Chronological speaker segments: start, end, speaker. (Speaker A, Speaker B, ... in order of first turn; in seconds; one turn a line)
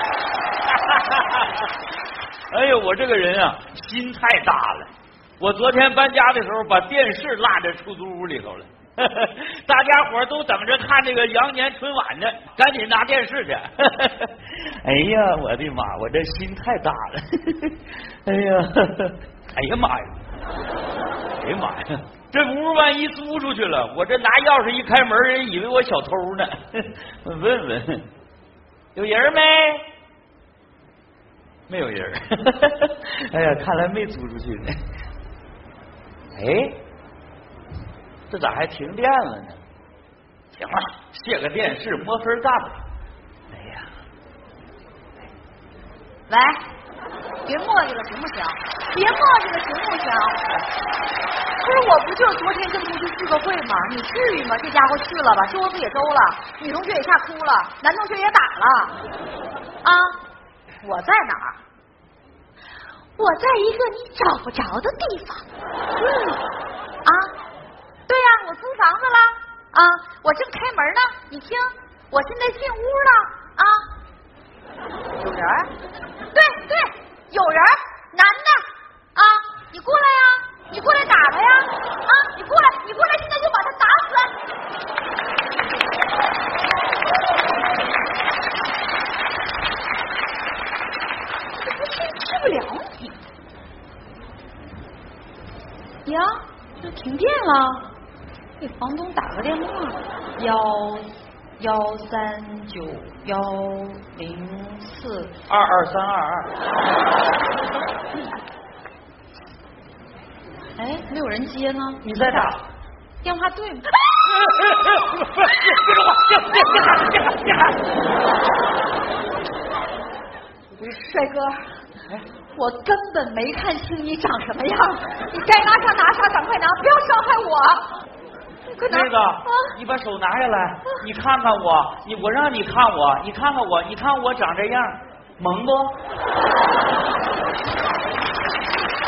Speaker A: 0.7-1.7
Speaker A: 2.5-20.2
Speaker A: 21.4-28.1
Speaker A: 28.9-29.9
Speaker A: 31.7-34.8
Speaker A: 36.3-36.8
Speaker A: 38.3-39.6
Speaker A: 40.5-42.8
Speaker A: 43.5-43.9
Speaker B: 46.3-46.6
Speaker B: 47.5-50.5
Speaker B: 51.6-59.0
Speaker B: 59.8-60.2
Speaker B: 60.8-61.6
Speaker B: 63.2-66.5
Speaker B: 67.0-67.3
Speaker B: 68.1-73.8
Speaker B: 75.2-75.7
Speaker B: 76.3-84.4
Speaker B: 91.6-93.2
Speaker B: 96.0-97.9
Speaker B: 98.6-105.3
Speaker A: 105.5-106.5
Speaker B: 110.8-112.5
Speaker A: 112.0-112.6
Speaker B: 113.2-114.0
Speaker A: 114.2-117.8
Speaker B: 116.5-117.1
Speaker B: 120.7-121.5
Speaker B: 122.5-127.9
Speaker B: 128.7-129.7
Speaker A: 128.9-136.0